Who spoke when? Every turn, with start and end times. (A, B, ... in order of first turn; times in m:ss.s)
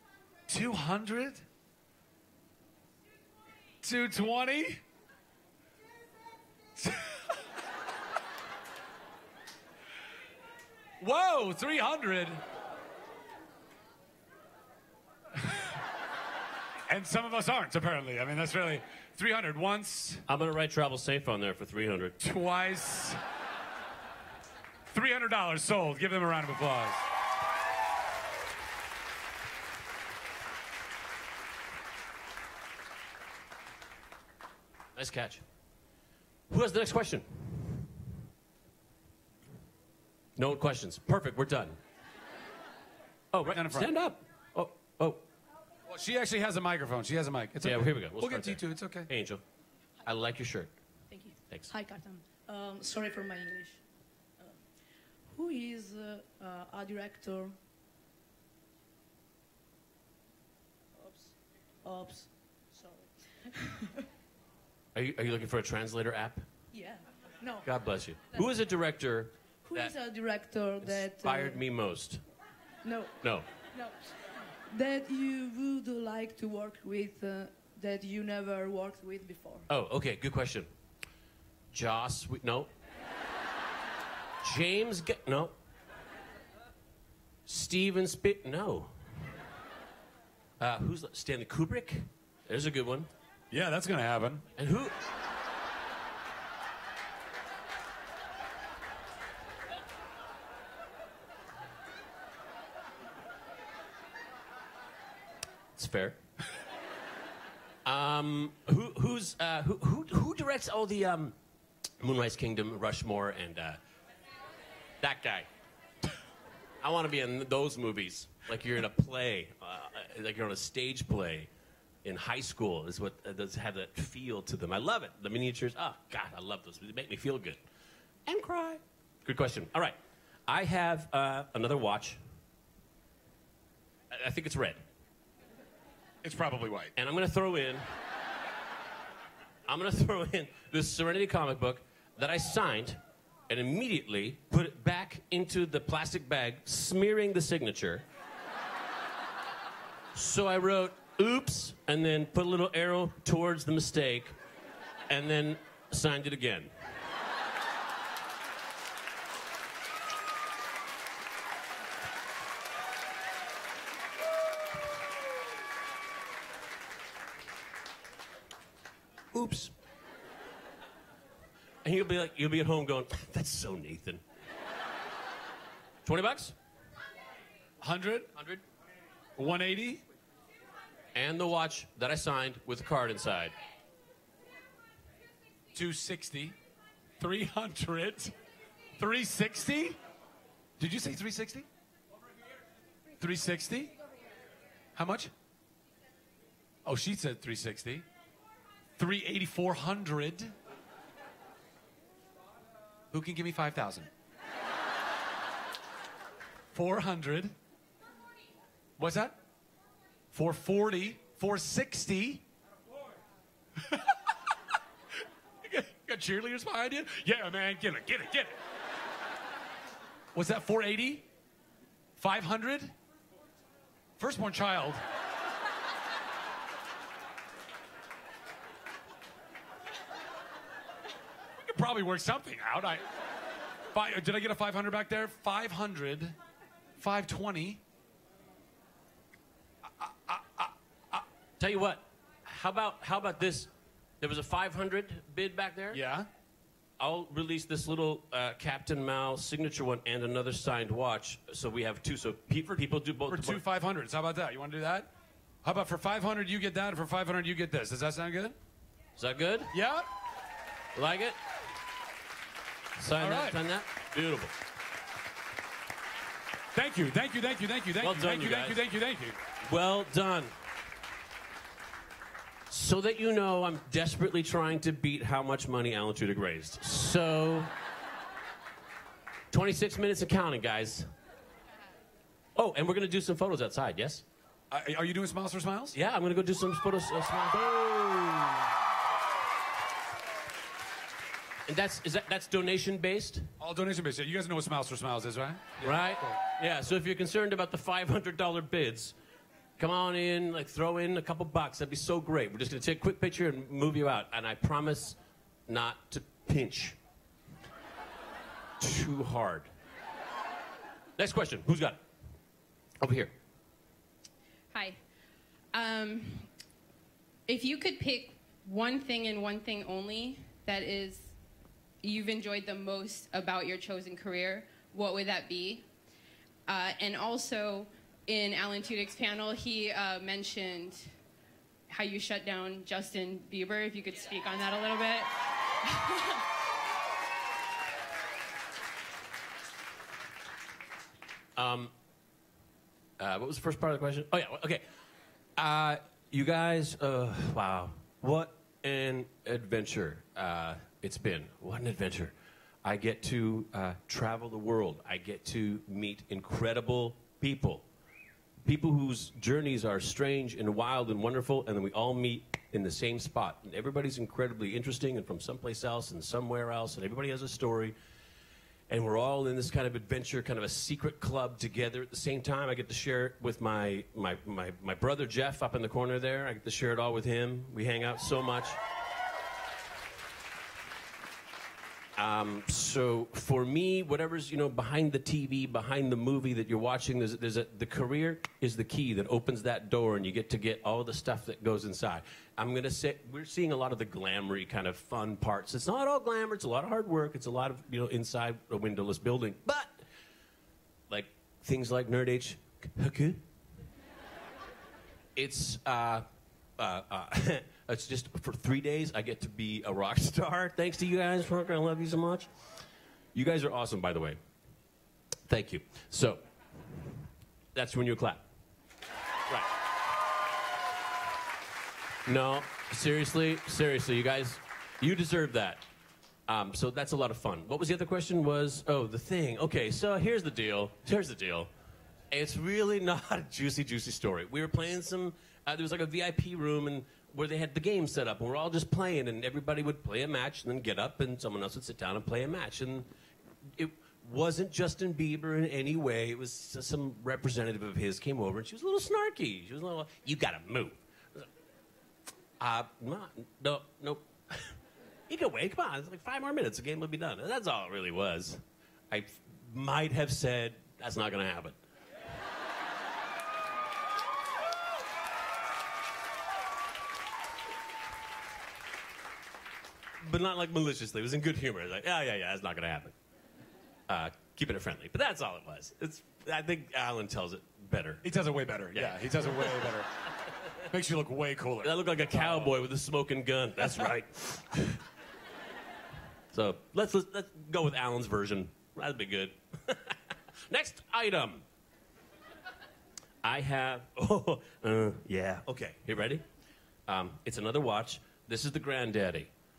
0:00.5-0:01.4 A
0:03.8-0:04.8 A
0:06.8-0:07.4 A
0:11.0-0:12.4 A
0:15.3-0:15.8 A
0:16.9-0:20.2 A
0:20.3-0:22.2 B
0:22.2-0:23.2 A
0:24.9-0:27.0 A
0:35.0-0:35.4 B
0:36.5-0:37.9 B
0:40.4-0:41.8 B
0:43.3-0:45.2 B
0:43.4-0:43.9 A
0:45.9-0:49.1 A
0:47.6-0:49.4 B
0:50.0-0:50.7 B
0:51.1-0:53.8 C
0:55.3-0:57.6 C
1:01.0-1:01.3 C
1:01.8-1:03.8 C
1:04.9-1:06.4 B
1:06.7-1:07.6 C
1:07.6-1:09.9 B
1:09.6-1:11.6 C
1:10.8-1:12.2 B
1:12.8-1:13.1 C
1:14.6-1:19.6 C
1:19.7-1:20.7 B
1:21.7-1:22.7 B
1:24.4-1:25.5 B
1:27.5-1:28.9 B
1:30.6-1:33.1 B
1:33.5-1:34.4 A
1:34.6-1:34.9 B
1:45.8-1:46.2 B
1:47.8-1:51.4 B
1:52.0-1:53.8 B
1:55.0-1:55.5 B
1:56.8-2:01.5 B
2:02.0-2:07.6 B
2:08.2-2:12.2 B
2:14.1-2:14.8 B
2:16.2-2:16.9 A
2:17.0-2:17.8 B
2:19.7-2:28.0 B
2:30.1-2:34.3 B
2:35.1-2:36.7 B
2:49.3-2:49.7 B
2:51.8-2:54.2 B
2:56.0-2:56.5 B
2:57.8-2:58.3 A
2:58.4-2:58.6 B
2:59.4-3:00.0 A
3:01.1-3:03.5 B
3:05.7-3:06.6 A
3:07.2-3:08.3 A
3:09.0-3:10.0 A
3:10.8-3:11.7 A
3:13.2-3:13.9 A
3:14.9-3:15.3 A
3:16.8-3:18.0 A
3:19.0-3:20.5 A
3:23.1-3:24.1 A
3:26.7-3:27.5 A
3:29.0-3:29.4 A
3:30.3-3:32.4 A
3:33.8-3:34.3 A
3:35.6-3:38.6 A
3:40.3-3:41.2 A
3:42.2-3:42.9 A
3:44.2-3:45.0 A
3:51.6-3:53.0 A
3:53.9-3:56.4 A
3:57.0-3:57.8 A
4:00.0-4:01.2 A
4:01.6-4:03.7 B
4:04.2-4:06.0 B
4:05.9-4:06.3 A
4:07.0-4:13.6 B
4:12.7-4:15.1 A
4:15.6-4:18.6 A
4:19.2-4:19.7 B
4:19.7-4:20.1 A
4:20.9-4:21.4 B
4:23.0-4:24.5 B
4:23.2-4:23.6 A
4:26.7-4:29.4 A
4:28.0-4:28.8 B
4:29.6-4:30.5 B
4:32.7-4:37.7 B
4:39.5-4:41.1 B
4:42.6-4:44.2 B
4:44.7-4:46.0 A
4:45.9-4:48.7 B
4:51.7-4:53.5 B
4:53.6-4:56.4 A
4:55.8-4:59.1 B
4:59.8-5:07.0 B
5:08.8-5:09.7 B
5:11.2-5:12.0 B
5:13.0-5:13.3 B
5:14.7-5:15.0 D
5:15.7-5:16.5 D
5:17.5-5:21.3 D
5:22.0-5:25.8 D
5:26.7-5:31.1 D
5:31.9-5:35.3 D
5:35.8-5:36.2 D
5:41.6-5:41.9 B
5:43.2-5:44.8 B
5:45.6-5:57.8 B
5:58.6-6:07.9 B
6:08.9-6:18.8 B
6:22.2-6:40.0 B
6:41.1-6:43.4 B
6:45.4-6:46.2 B
6:46.8-6:52.5 B
6:53.3-6:54.4 B
6:55.5-6:56.4 B
6:57.7-6:58.4 B
7:02.2-7:05.8 B
7:06.5-7:11.7 B
7:12.3-7:23.1 B
7:23.8-7:31.5 B
7:32.6-7:34.8 B
7:35.3-7:41.7 B
7:50.2-7:53.1 B
7:54.1-7:58.2 B
7:58.2-8:02.8 A
7:58.9-7:59.9 B
8:01.8-8:05.0 B
8:06.5-8:11.6 B
8:13.4-8:16.4 B
8:17.1-8:19.5 B